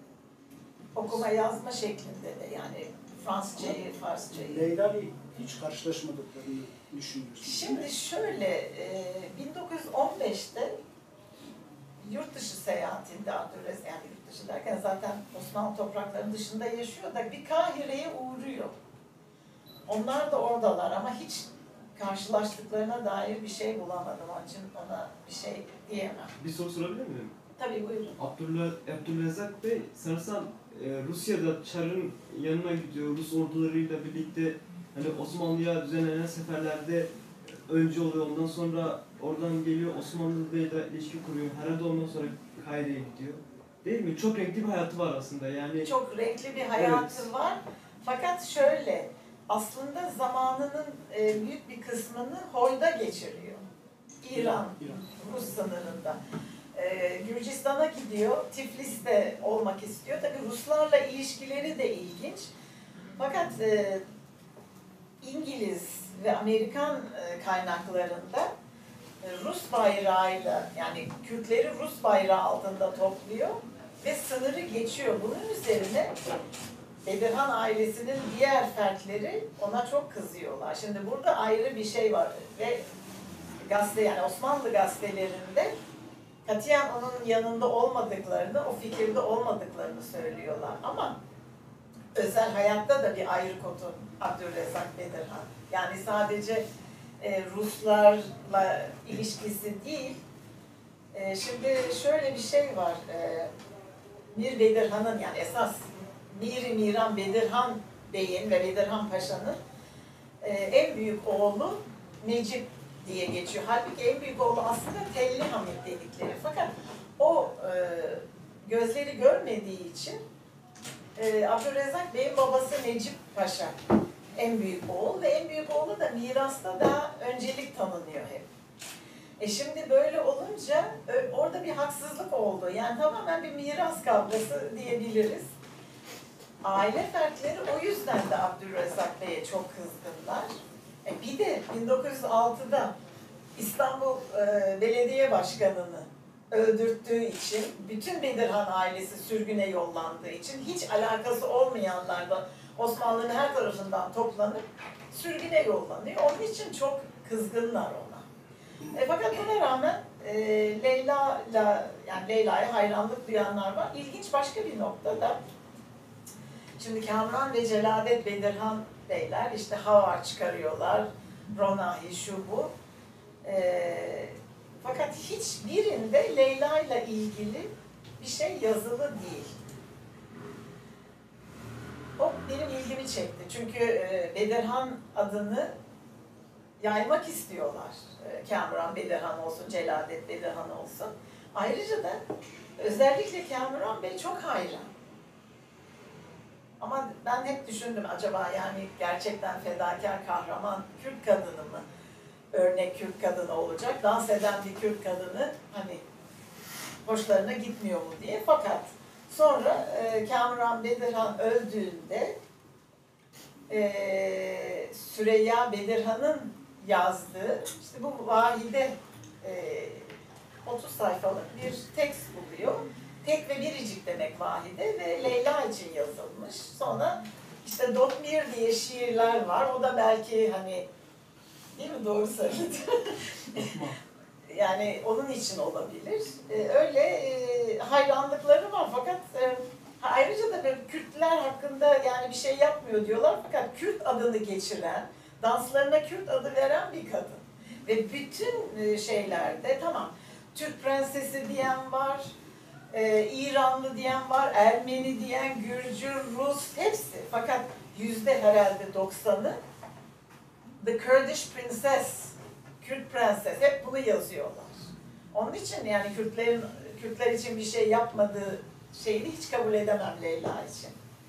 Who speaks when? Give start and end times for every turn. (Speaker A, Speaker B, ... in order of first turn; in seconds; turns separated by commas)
Speaker A: 0.9-4.7, Speaker B: 3.6-7.9, Speaker A: 7.4-10.8, Speaker A: 12.0-18.8, Speaker A: 19.9-26.3, Speaker C: 26.4-27.3, Speaker A: 27.6-28.2, Speaker C: 28.2-45.9, Speaker A: 45.8-53.6, Speaker C: 46.8-47.3, Speaker A: 54.2-56.2, Speaker B: 54.3-55.0, Speaker A: 56.8-62.5, Speaker A: 63.2-64.0, Speaker A: 65.2-68.5, Speaker A: 69.2-76.2, Speaker A: 77.0-82.8, Speaker A: 83.6-85.7, Speaker A: 86.5-91.2, Speaker A: 92.1-96.6, Speaker A: 97.2-100.2, Speaker A: 101.1-103.5, Speaker A: 104.3-109.6, Speaker A: 110.4-120.2, Speaker A: 121.2-123.8, Speaker A: 124.4-128.5, Speaker A: 129.4-135.5, Speaker A: 136.6-140.5, Speaker A: 141.1-142.9, Speaker A: 143.6-158.2, Speaker A: 158.9-165.4, Speaker A: 166.8-172.7, Speaker A: 173.4-179.5, Speaker A: 182.2-185.7, Speaker A: 186.8-192.2, Speaker A: 192.8-194.9, Speaker A: 196.8-201.8, Speaker A: 202.5-206.0, Speaker A: 207.1-212.4, Speaker A: 213.7-230.8, Speaker A: 231.8-233.7, Speaker C: 233.6-233.9, Speaker A: 234.5-252.3, Speaker A: 252.9-259.6, Speaker A: 260.8-270.9